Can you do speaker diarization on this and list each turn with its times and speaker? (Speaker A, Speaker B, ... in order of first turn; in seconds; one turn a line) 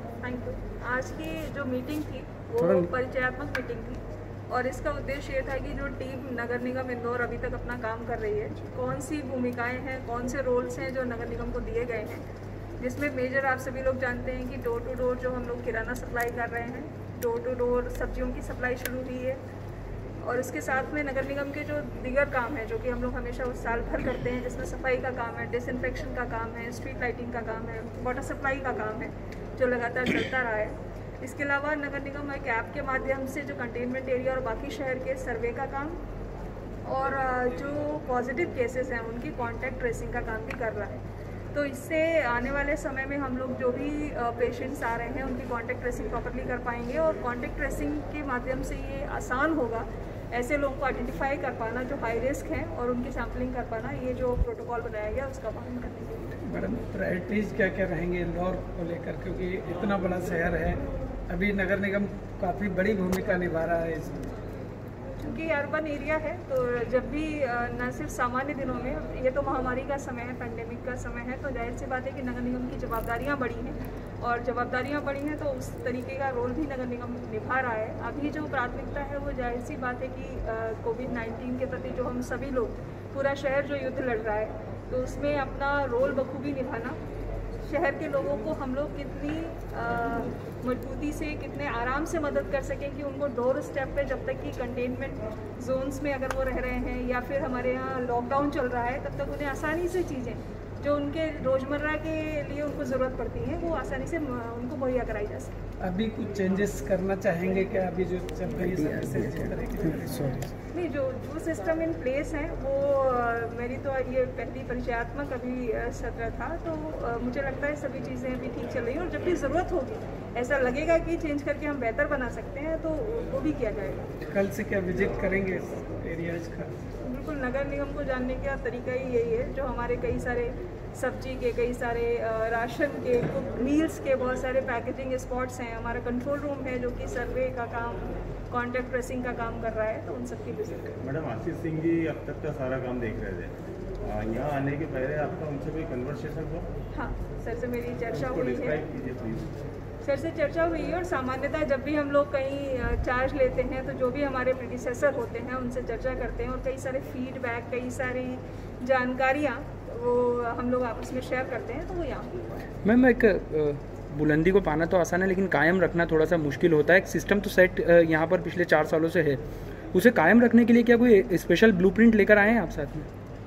Speaker A: 0.2-12.2
Speaker B: 2.6-2.9
Speaker A: 12.8-19.4
Speaker A: 20.2-36.0
Speaker A: 36.9-56.3
Speaker C: 56.4-64.2
Speaker A: 65.2-87.0
Speaker A: 87.7-105.5
Speaker C: 105.8-110.5
Speaker B: 108.8-109.3
Speaker A: 110.7-124.1
Speaker C: 124.3-126.8
Speaker A: 127.0-141.0
Speaker D: 141.0-146.7
Speaker A: 146.9-148.8
Speaker D: 148.1-149.5
Speaker A: 150.0-162.7
Speaker B: 162.8-169.4
Speaker B: 169.9-173.1